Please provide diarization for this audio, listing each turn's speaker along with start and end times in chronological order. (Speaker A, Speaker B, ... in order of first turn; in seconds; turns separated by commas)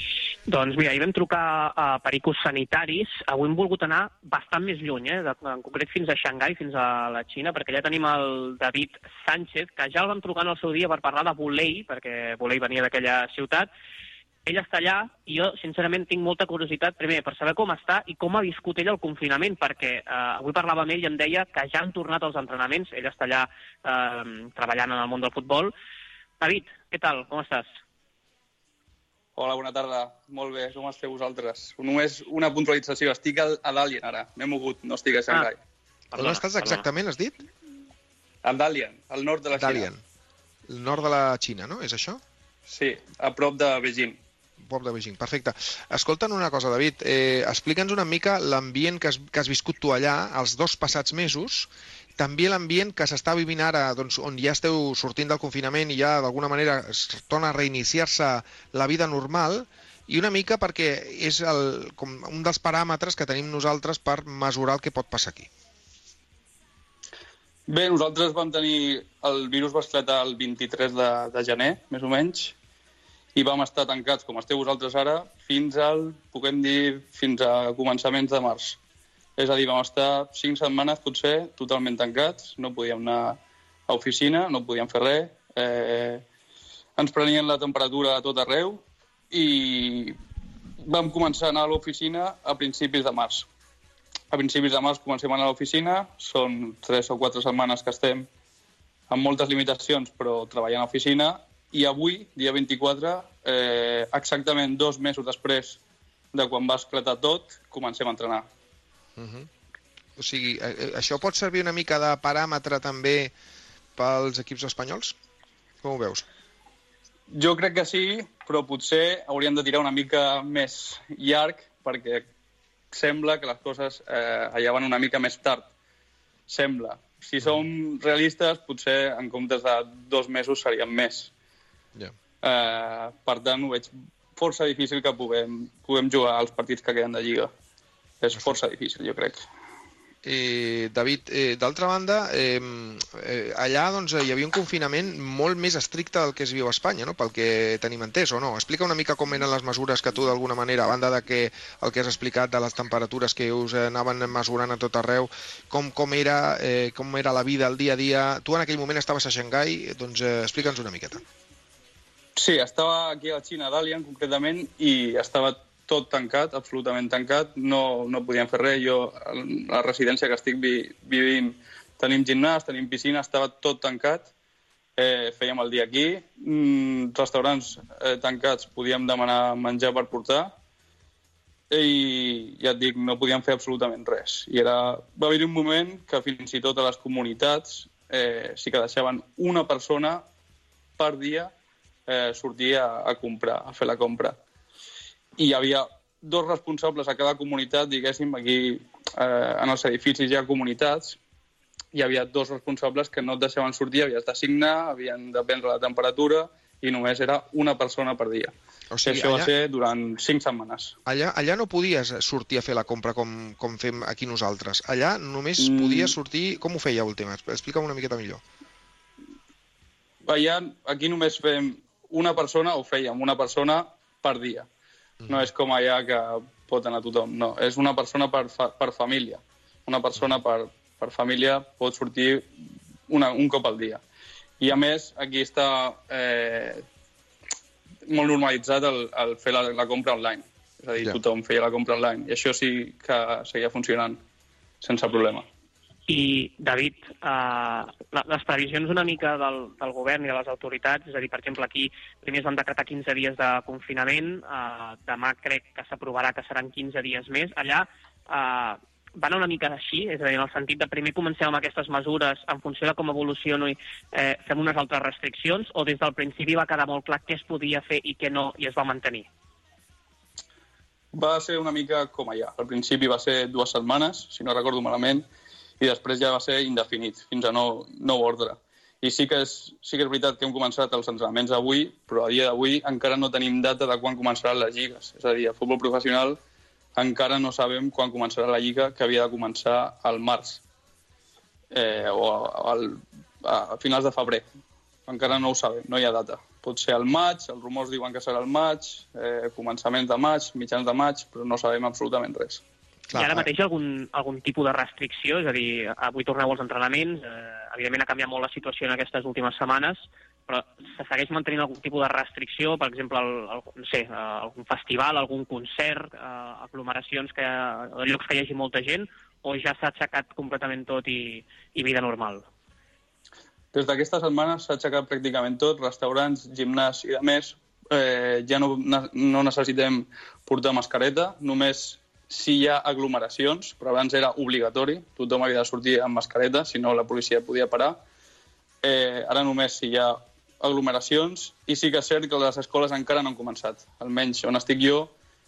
Speaker A: 0.5-13.7, Speaker A: 14.4-25.7, Speaker A: 26.4-27.7, Speaker B: 29.4-35.6, Speaker A: 36.1-36.8, Speaker C: 36.1-37.4, Speaker B: 38.4-39.9, Speaker C: 39.5-40.0, Speaker C: 40.7-42.2, Speaker B: 42.7-44.2, Speaker C: 44.6-65.5, Speaker B: 67.7-72.5, Speaker B: 73.3-78.8, Speaker B: 79.4-86.2, Speaker B: 87.0-90.2, Speaker B: 90.8-93.5, Speaker B: 94.3-98.3, Speaker B: 99.1-105.8, Speaker B: 106.3-108.5, Speaker C: 109.2-109.5, Speaker C: 110.2-113.3, Speaker C: 114.0-115.2, Speaker C: 115.8-116.2, Speaker B: 117.3-122.2, Speaker B: 122.9-125.7, Speaker B: 126.5-131.3, Speaker B: 132.4-137.5, Speaker B: 138.2-139.4, Speaker C: 140.2-161.2, Speaker B: 162.3-174.3, Speaker B: 175.0-180.5, Speaker B: 181.7-190.2, Speaker B: 191.0-191.5, Speaker B: 192.1-194.4, Speaker B: 195.4-201.2, Speaker B: 201.9-208.5, Speaker C: 208.9-209.5, Speaker B: 209.0-210.9, Speaker C: 211.1-218.4, Speaker B: 215.6-216.1, Speaker B: 220.2-224.7, Speaker B: 225.3-232.5, Speaker B: 233.1-234.0, Speaker B: 234.6-236.8, Speaker B: 238.1-244.2, Speaker B: 244.8-245.4, Speaker A: 246.1-269.3, Speaker B: 271.1-275.2, Speaker B: 275.8-286.4, Speaker B: 286.9-290.6, Speaker B: 291.7-294.4, Speaker B: 295.1-302.6, Speaker C: 303.1-303.5, Speaker A: 303.1-322.5, Speaker B: 323.7-338.0, Speaker B: 338.8-345.1